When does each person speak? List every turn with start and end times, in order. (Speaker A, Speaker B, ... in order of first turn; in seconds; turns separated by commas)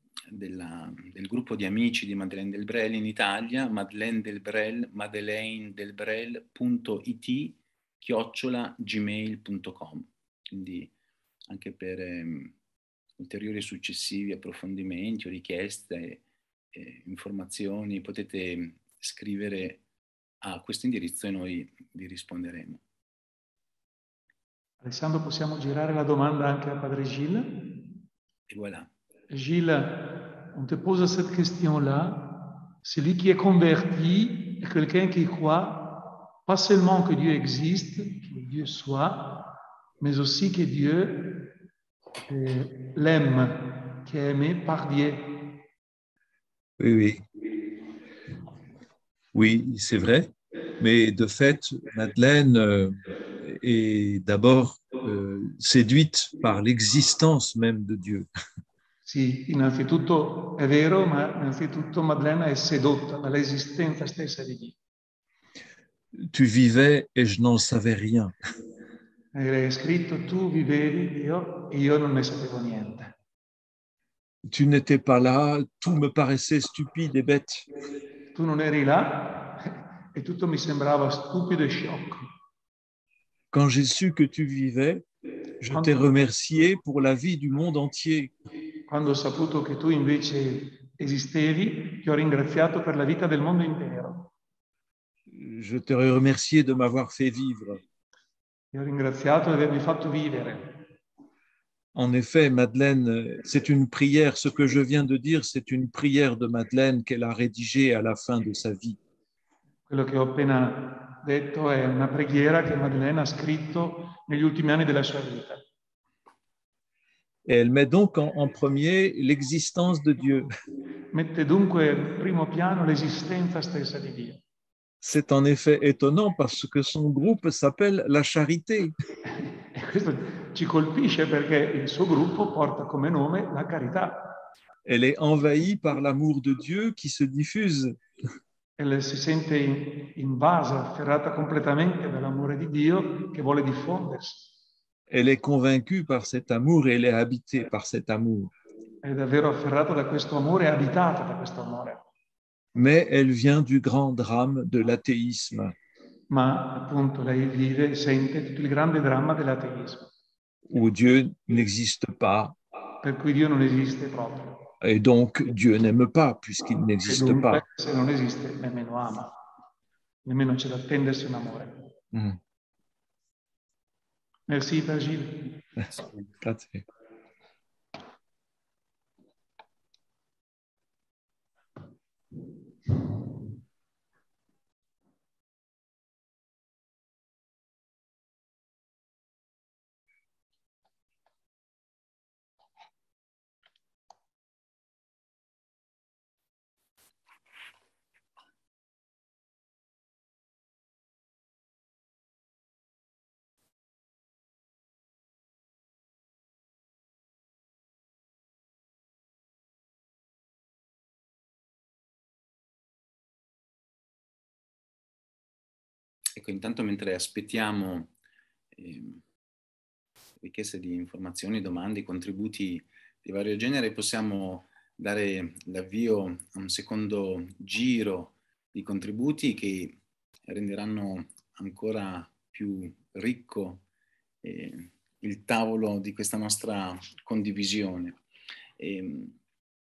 Speaker A: 0.3-10.9, Speaker A: 11.5-12.5, Speaker A: 13.2-19.8, Speaker A: 20.4-22.8, Speaker B: 24.8-28.0, Speaker A: 28.5-28.9, Speaker B: 29.3-41.6, Speaker B: 42.3-45.6, Speaker C: 46.8-47.2, Speaker C: 49.3-58.3, Speaker B: 59.0-64.8, Speaker C: 66.2-68.3, Speaker B: 69.3-73.1, Speaker C: 74.5-77.7, Speaker B: 78.3-82.2, Speaker C: 83.5-85.0, Speaker C: 85.6-88.3, Speaker B: 85.7-86.1, Speaker B: 88.9-94.3, Speaker C: 95.3-97.8, Speaker B: 98.7-100.8, Speaker C: 101.9-109.0, Speaker B: 109.9-115.6, Speaker C: 117.5-120.5, Speaker B: 121.1-124.4, Speaker C: 125.0-128.9, Speaker B: 129.7-134.4, Speaker C: 134.8-138.0, Speaker B: 138.8-144.5, Speaker C: 145.1-148.5, Speaker B: 149.0-152.0, Speaker C: 152.7-155.8, Speaker B: 156.3-160.1, Speaker C: 160.7-162.6, Speaker B: 163.0-164.7, Speaker C: 164.8-167.6, Speaker B: 167.1-169.3, Speaker B: 170.2-171.9, Speaker C: 172.1-172.4, Speaker B: 174.5-175.6, Speaker C: 175.9-176.8, Speaker A: 216.4-218.1, Speaker A: 218.7-219.2, Speaker A: 220.4-233.8, Speaker A: 234.4-238.2, Speaker A: 238.8-239.3